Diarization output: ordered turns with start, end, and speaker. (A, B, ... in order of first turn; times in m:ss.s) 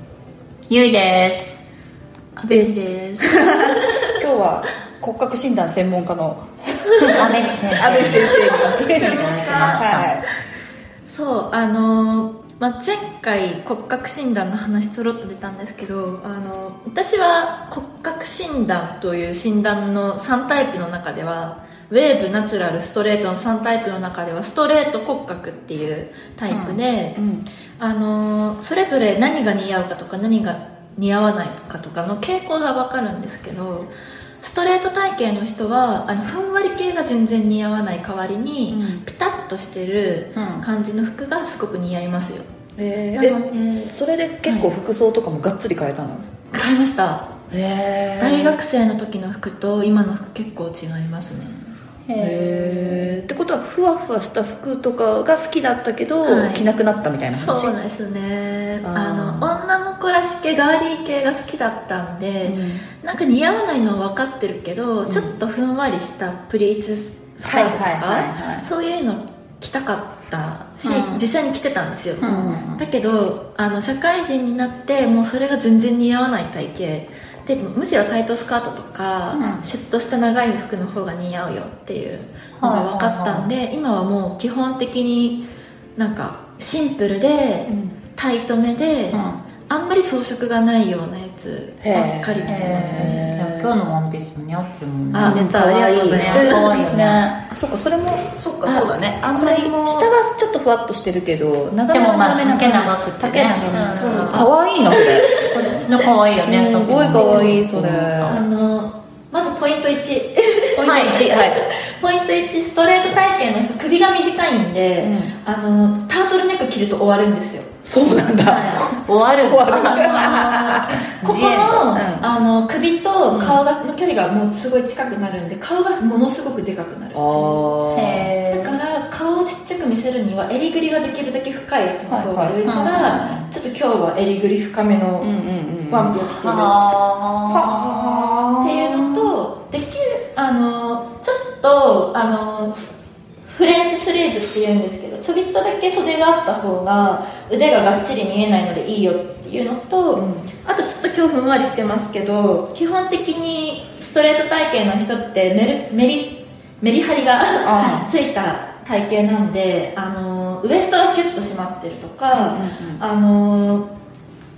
0:00.7-0:01.6 A
0:02.4-0:04.1 B
0:02.5-0:10.2 C
0:06.8-0:09.9 B
0:07.1-0:10.1 A
0:11.0-0:27.2 B
0:26.5-0:26.8 A
0:27.2-0:27.4 C
0:27.8-0:42.5 B
0:38.7-0:39.0 C
0:40.4-0:40.6 A
0:42.8-0:46.3 C
0:43.1-0:43.9 B
0:44.4-0:44.7 B
0:46.5-0:47.3 B
0:47.5-0:48.6 C
0:48.2-0:51.7 B
0:52.1-0:53.1 A
0:52.2-0:57.7 C
0:56.2-0:56.6 B
0:57.3-1:25.4 B
0:58.8-0:59.6 C
1:02.4-1:02.8 C
1:05.0-1:05.3 C
1:07.4-1:08.7 C
1:10.8-1:11.2 A
1:10.8-1:11.2 C
1:12.2-1:12.8 A
1:19.3-1:19.6 A
1:22.6-1:23.5 A
1:26.0-1:33.3 B
1:27.7-1:28.0 C
1:29.1-1:29.4 A
1:31.8-1:33.7 C
1:32.4-1:37.3 A
1:35.1-1:36.7 B
1:35.2-1:35.5 C
1:36.2-1:45.3 C
1:38.6-1:40.1 B
1:41.9-1:44.5 A
1:44.9-1:45.5 B
1:45.4-1:48.4 A
1:46.4-1:48.4 C
1:47.2-1:47.5 B
1:48.2-1:57.7 B
1:50.8-1:51.6 C
1:50.8-1:51.2 A
1:55.0-1:55.3 C
1:57.8-1:58.9 C
1:58.4-1:58.9 B
1:58.8-2:01.9 A
1:59.4-2:01.0 C
1:59.8-2:07.7 B
2:01.9-2:02.3 C
2:03.3-2:03.6 C
2:07.1-2:08.3 C
2:07.9-2:08.8 A
2:08.5-2:15.3 B
2:12.1-2:13.2 C
2:12.7-2:13.5 A
2:15.2-2:16.2 C
2:15.9-2:16.8 B
2:16.2-2:18.4 A
2:17.5-2:19.3 C
2:18.6-2:43.9 B
2:30.1-2:30.5 C
2:37.6-2:38.1 C
2:42.3-2:43.0 C